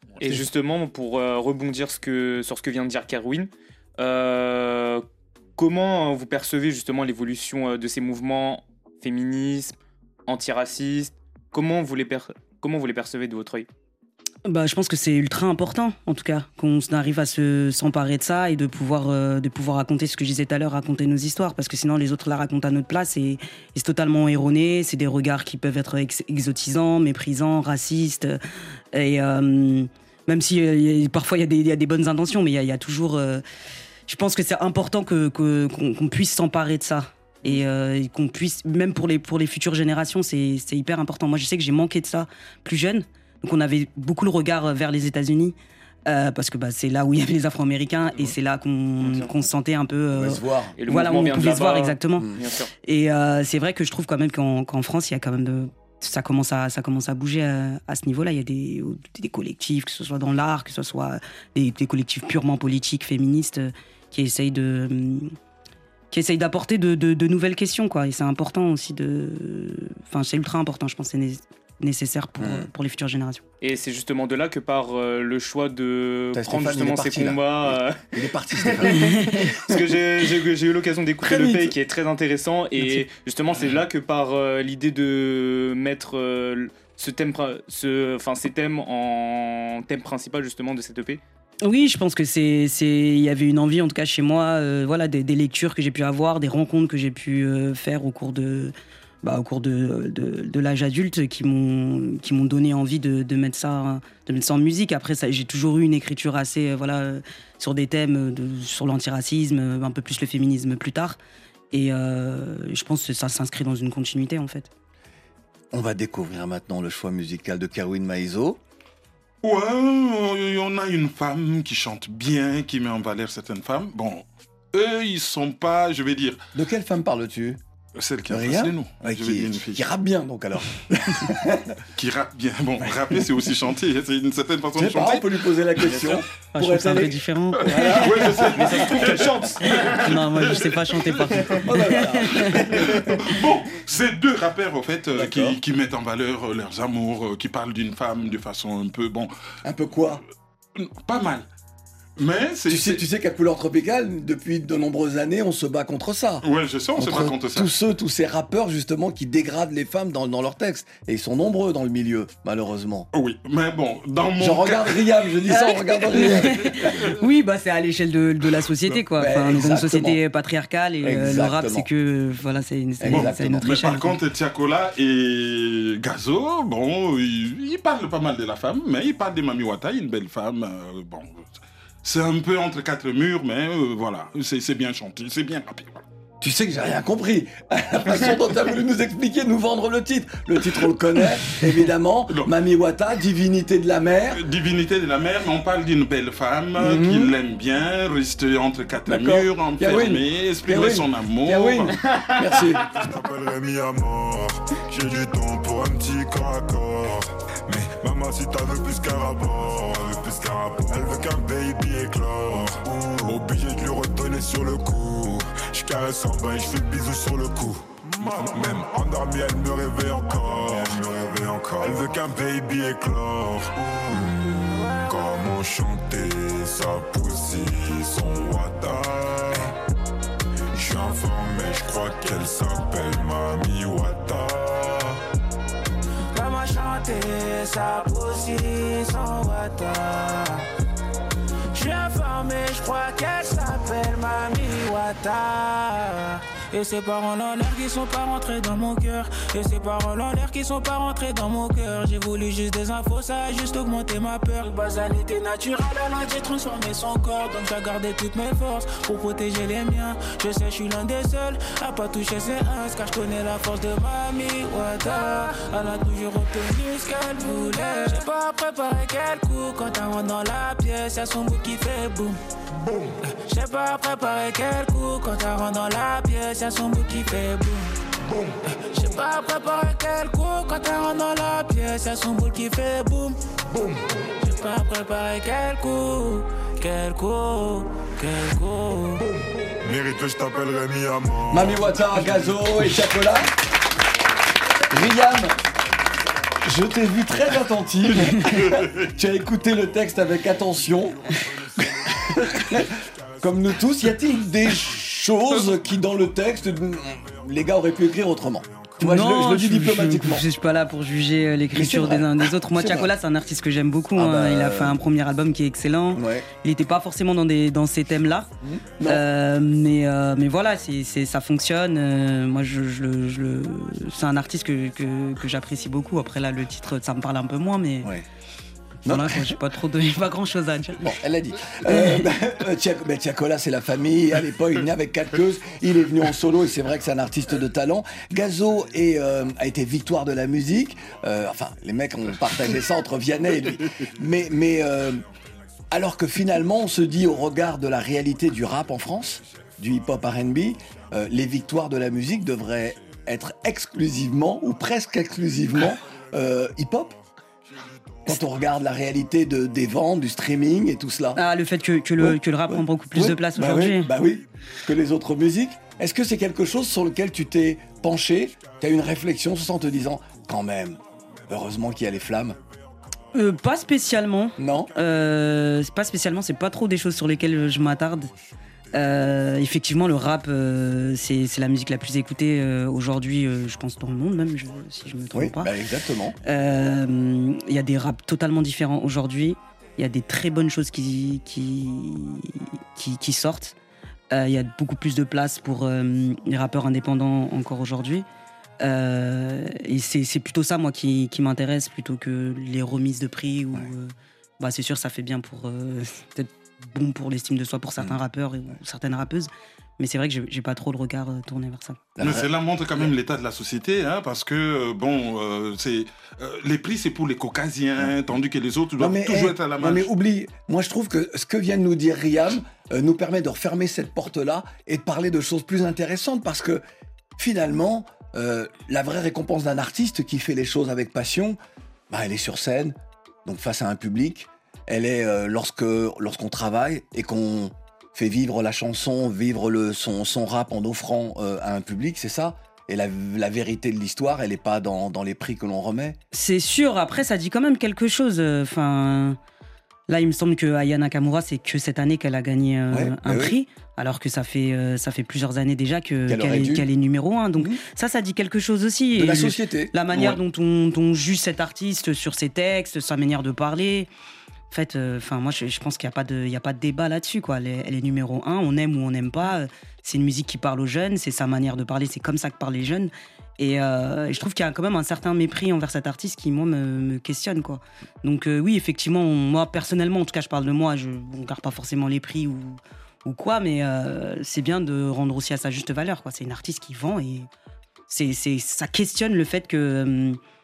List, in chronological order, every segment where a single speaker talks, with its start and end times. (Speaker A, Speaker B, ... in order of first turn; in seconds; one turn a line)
Speaker A: 0.2-5.0
Speaker A: 5.6-9.8
Speaker A: 10.3-13.7
Speaker B: 14.4-28.4
Speaker B: 28.9-33.4
Speaker B: 34.1-45.5
Speaker B: 46.0-52.3
Speaker C: 50.1-50.7
Speaker A: 50.8-52.7
Speaker B: 52.8-65.3
Speaker B: 66.1-73.4
Speaker C: 72.4-72.7
Speaker A: 73.6-91.2
Speaker C: 76.3-79.8
Speaker B: 78.9-79.4
Speaker C: 81.2-81.7
Speaker B: 91.6-111.2
Speaker B: 111.7-114.7
Speaker C: 115.7-118.6
Speaker D: 119.4-126.4
Speaker C: 126.5-127.6
Speaker D: 128.0-129.8
Speaker C: 128.3-131.8
Speaker D: 131.9-135.3
Speaker C: 134.7-137.2
Speaker B: 136.5-138.2
Speaker D: 137.7-141.6
Speaker C: 137.7-138.8
Speaker A: 138.6-140.1
Speaker B: 139.9-142.7
Speaker C: 141.6-142.8
Speaker D: 142.8-149.3
Speaker C: 145.1-145.6
Speaker C: 149.6-150.2
Speaker D: 150.8-151.4
Speaker D: 152.2-153.0
Speaker C: 152.7-156.4
Speaker D: 156.4-157.7
Speaker C: 157.0-163.1
Speaker D: 163.1-165.0
Speaker C: 164.4-167.1
Speaker B: 165.5-174.1
Speaker C: 169.1-170.2
Speaker C: 171.0-171.9
Speaker C: 173.0-173.7
Speaker D: 173.1-181.5
Speaker D: 182.0-186.0
Speaker C: 186.4-194.4
Speaker D: 194.3-201.9
Speaker C: 196.8-197.3
Speaker C: 199.1-202.8
Speaker A: 202.0-202.7
Speaker E: 202.9-229.7
Speaker E: 230.7-235.2
Speaker F: 236.3-240.6
Speaker F: 241.7-272.4
Speaker F: 273.4-277.9
Speaker F: 278.9-283.4
Speaker F: 284.4-289.2
Speaker E: 289.8-292.6
Speaker C: 291.5-293.5
Speaker C: 294.9-295.6
Speaker C: 296.6-301.2
Speaker D: 298.3-298.9
Speaker C: 301.8-310.4
Speaker E: 301.8-302.1
Speaker B: 309.0-318.5
Speaker C: 311.7-313.1
Speaker C: 314.1-315.0
Speaker C: 316.1-316.5
Speaker C: 318.6-319.2
Speaker B: 319.0-328.1
Speaker C: 329.0-329.6
Speaker B: 329.0-331.1
Speaker C: 331.0-345.2
Speaker B: 331.9-332.3
Speaker C: 345.9-357.1
Speaker C: 358.2-361.4
Speaker B: 361.3-364.1
Speaker C: 362.2-372.6
Speaker B: 373.3-378.3
Speaker C: 374.6-374.9
Speaker B: 378.9-385.7
Speaker C: 385.3-386.4
Speaker B: 386.4-393.7
Speaker B: 394.3-398.2
Speaker B: 398.8-412.0
Speaker C: 412.2-413.1
Speaker D: 412.2-420.1
Speaker C: 419.0-426.8
Speaker C: 427.4-431.6
Speaker C: 432.1-446.2
Speaker B: 446.3-449.4
Speaker B: 450.1-464.1
Speaker C: 452.9-453.6
Speaker C: 456.3-456.9
Speaker C: 459.2-460.4
Speaker B: 464.7-487.5
Speaker B: 488.1-490.4